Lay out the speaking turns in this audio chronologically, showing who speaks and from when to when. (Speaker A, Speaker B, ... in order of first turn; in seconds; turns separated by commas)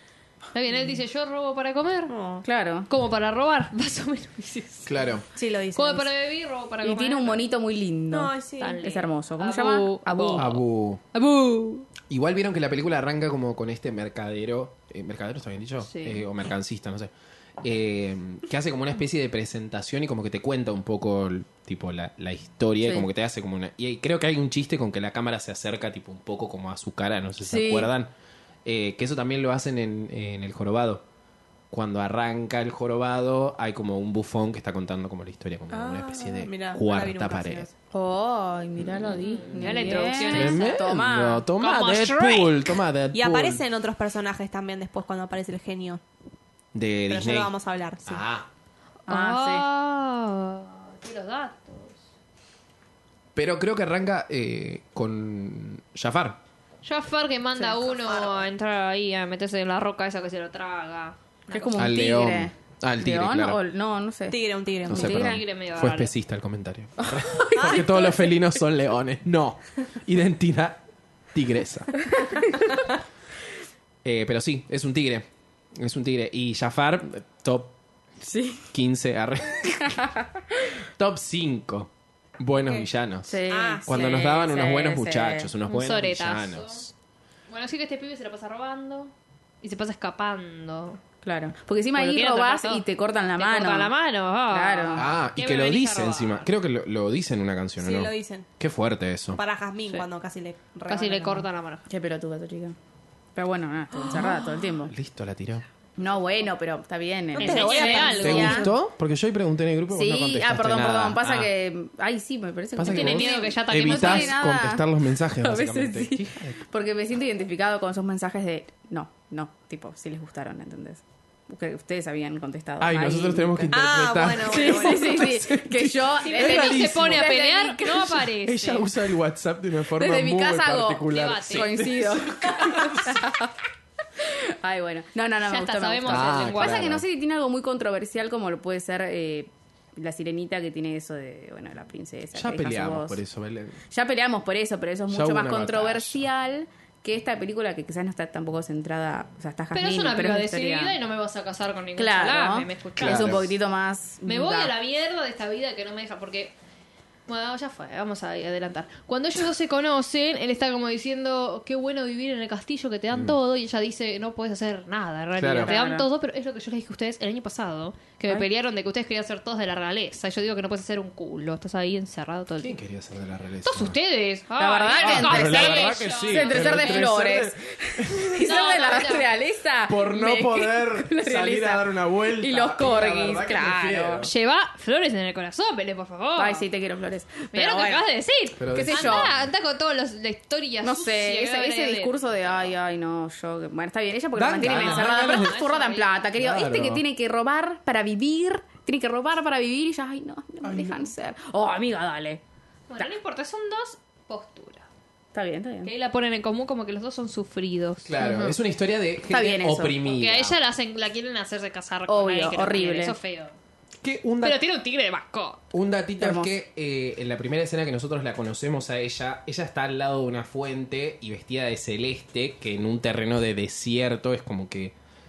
Speaker A: 0.5-2.1, Speaker B: 2.1-2.4, Speaker C: 2.4-2.9, Speaker A: 2.9-4.9, Speaker D: 4.8-5.3, Speaker B: 5.3-6.1, Speaker A: 5.7-7.4, Speaker C: 6.8-10.5, Speaker B: 8.1-8.9, Speaker A: 8.6-10.6, Speaker D: 10.3-11.0, Speaker A: 11.1-11.9, Speaker D: 12.1-17.1, Speaker A: 15.8-16.3, Speaker D: 17.6-28.1, Speaker C: 22.8-23.1, Speaker C: 27.4-27.9, Speaker D: 28.6-31.0, Speaker D: 31.7-37.6, Speaker B: 35.7-37.7, Speaker C: 37.9-41.5, Speaker A: 39.0-40.8, Speaker D: 40.2-43.6, Speaker A: 41.6-42.7, Speaker B: 43.1-46.0, Speaker D: 46.7-47.5, Speaker B: 47.1-48.2, Speaker D: 48.0-48.5, Speaker C: 49.1-49.6, Speaker A: 49.1-52.0, Speaker D: 53.4-56.4, Speaker A: 56.8-61.8, Speaker B: 57.9-58.4, Speaker C: 61.5-65.4, Speaker D: 61.8-63.6, Speaker B: 64.3-65.2, Speaker D: 64.9-70.8, Speaker A: 65.0-66.1, Speaker C: 67.0-68.5, Speaker D: 71.3-72.0, Speaker C: 72.2-72.4, Speaker D: 74.0-77.8, Speaker C: 78.2-78.7, Speaker D: 78.7-80.0, Speaker D: 81.0-86.9, Speaker B: 82.5-82.9, Speaker C: 83.3-85.5, Speaker B: 83.5-84.2, Speaker A: 85.7-86.8, Speaker A: 87.5-91.0, Speaker C: 91.2-93.9, Speaker A: 91.9-92.8, Speaker A: 93.4-96.5, Speaker C: 94.5-95.1, Speaker D: 95.0-99.4, Speaker B: 97.8-98.5, Speaker B: 99.3-101.4, Speaker A: 100.9-101.9, Speaker C: 101.9-102.8, Speaker C: 103.3-104.9, Speaker D: 104.8-105.6, Speaker C: 106.0-108.7, Speaker B: 107.3-108.6, Speaker A: 107.4-108.7, Speaker D: 108.2-111.5, Speaker C: 109.9-114.9, Speaker D: 112.8-116.6, Speaker A: 112.8-114.4, Speaker C: 115.4-128.3, Speaker D: 122.8-127.3, Speaker B: 123.7-125.3, Speaker A: 126.2-128.9, Speaker D: 128.4-133.2, Speaker C: 129.9-133.5, Speaker A: 131.1-131.9, Speaker C: 134.2-143.2, Speaker A: 135.4-136.9, Speaker D: 136.1-137.0, Speaker D: 142.3-143.8, Speaker C: 143.9-151.0, Speaker D: 145.1-146.2, Speaker A: 149.7-153.5, Speaker C: 151.9-154.7, Speaker D: 153.0-153.5, Speaker A: 154.2-156.5, Speaker A: 157.3-172.8, Speaker D: 165.4-165.7, Speaker C: 165.6-166.1, Speaker D: 172.6-173.9, Speaker A: 173.6-177.1, Speaker C: 174.6-184.3, Speaker D: 175.0-178.4, Speaker A: 178.3-179.3, Speaker D: 179.9-184.3, Speaker A: 184.2-186.7, Speaker C: 186.3-188.1, Speaker A: 187.5-192.7, Speaker D: 188.6-189.4, Speaker C: 188.6-189.4, Speaker C: 190.8-202.4, Speaker D: 194.3-195.6, Speaker A: 194.6-196.2, Speaker D: 196.4-197.0, Speaker D: 200.6-201.1, Speaker A: 202.9-204.8, Speaker C: 205.3-205.9, Speaker A: 205.8-208.1, Speaker D: 208.0-210.6, Speaker C: 208.2-208.6, Speaker C: 209.3-210.1, Speaker A: 210.1-213.5, Speaker C: 212.1-213.2, Speaker D: 214.0-214.6, Speaker A: 214.4-215.6, Speaker D: 215.7-224.9, Speaker C: 216.2-216.5